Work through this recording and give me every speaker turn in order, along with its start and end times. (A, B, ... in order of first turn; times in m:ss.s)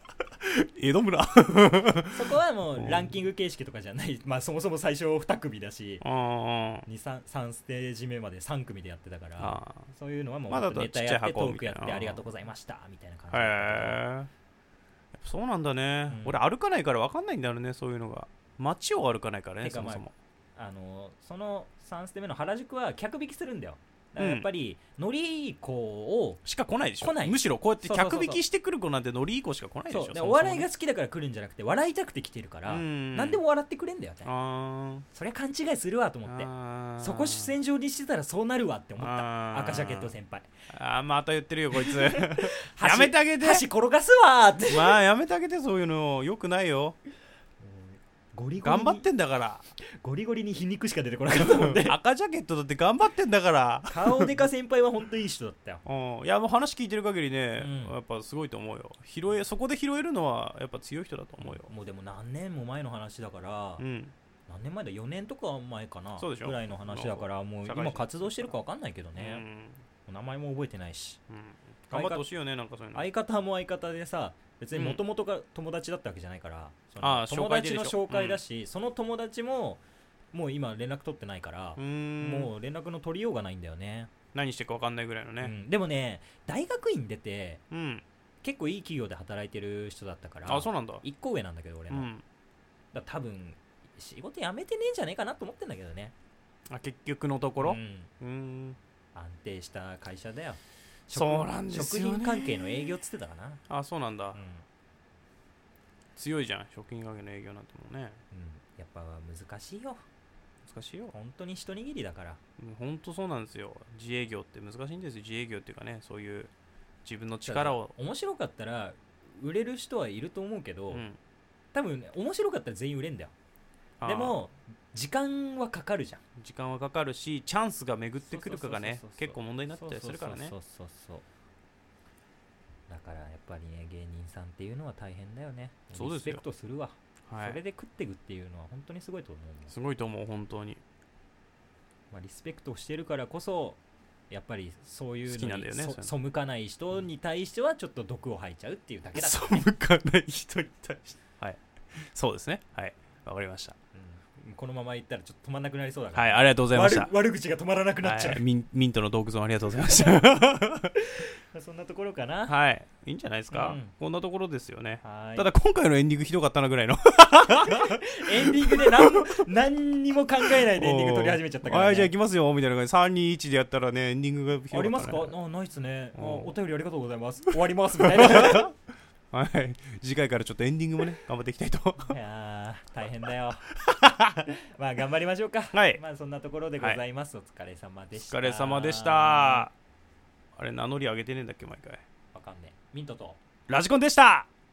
0:00.4-0:03.2 A
0:02.1-0:06.0 B
0:06.0-0:06.9 A
0:06.9-0:14.0 B
0:09.4-0:09.9 A
0:10.5-0:12.2 A
0:13.3-0:14.3 A
0:15.2-0:20.1 A
0:16.1-0:16.4 B
0:19.6-0:26.4 B
0:24.2-0:24.5 A
0:26.4-0:30.7 A
0:27.0-0:28.4 B
0:29.9-0:34.3 B
0:32.7-0:33.4 A
0:34.2-0:35.1 A
0:35.1-0:40.5 B
0:36.2-0:37.5 A
0:39.0-0:40.2 A
0:40.7-0:43.7 A
0:41.7-0:45.0 B
0:44.7-0:47.0 A
0:47.6-0:49.0 B
0:48.6-0:49.7 A
0:50.0-0:52.0 B
0:51.3-0:54.3 A
0:53.9-0:55.8 B
0:55.9-1:01.7 A
0:57.6-0:58.0 B
1:01.4-1:03.8 B
1:03.8-1:04.1 A
1:04.5-1:09.4 B
1:06.2-1:08.6 A
1:09.2-1:09.8 A
1:10.0-1:11.2 B
1:11.3-1:13.1 A
1:11.9-1:12.2 B
1:12.9-1:24.1 B
1:14.7-1:15.0 A
1:17.0-1:18.4 A
1:21.8-1:22.5 A
1:24.3-1:25.5 A
1:25.4-1:27.6 B
1:27.7-1:28.0 A
1:28.4-1:32.1 B
1:30.5-1:31.0 A
1:31.9-1:32.2 A
1:32.9-1:36.1 B
1:36.7-1:38.8 A
1:37.6-1:38.1 B
1:39.1-1:43.6 B
1:41.1-1:43.0 A
1:43.7-1:44.4 A
1:44.3-1:44.6 B
1:46.2-1:48.2 A
1:48.3-1:50.0 B
1:50.6-1:51.1 A
1:51.1-1:52.4 B
1:52.6-1:56.5 A
1:57.0-1:57.9 A
1:57.4-2:01.0 B
2:00.9-2:01.2 A
2:01.7-2:03.3 B
2:04.0-2:04.4 A
2:04.0-2:06.2 B
2:06.4-2:10.5 A
2:08.2-2:11.2 B
2:12.9-2:19.7 B
2:15.9-2:16.4 A
2:17.3-2:17.6 A
2:19.7-2:20.8 A
2:22.1-2:29.6 B
2:25.3-2:26.1 A
2:29.1-2:33.8 A
2:33.9-2:38.4 B
2:36.1-2:37.1 A
2:38.0-2:40.9 A
2:41.5-2:42.6 B
2:42.5-2:49.5 A
2:43.5-2:43.9 B
2:45.0-2:45.5 B
2:47.7-2:52.1 B
2:50.6-2:55.3 A
2:54.7-2:58.7 B
2:56.2-2:56.5 A
2:58.0-2:58.7 A
2:59.3-3:02.2 A
3:02.1-3:03.6 B
3:03.9-3:04.4 A
3:04.5-3:09.7 B
3:05.7-3:06.0 A
3:08.2-3:09.7 A
3:10.6-3:12.0 A
3:12.3-3:13.4 B
3:13.7-3:14.5 A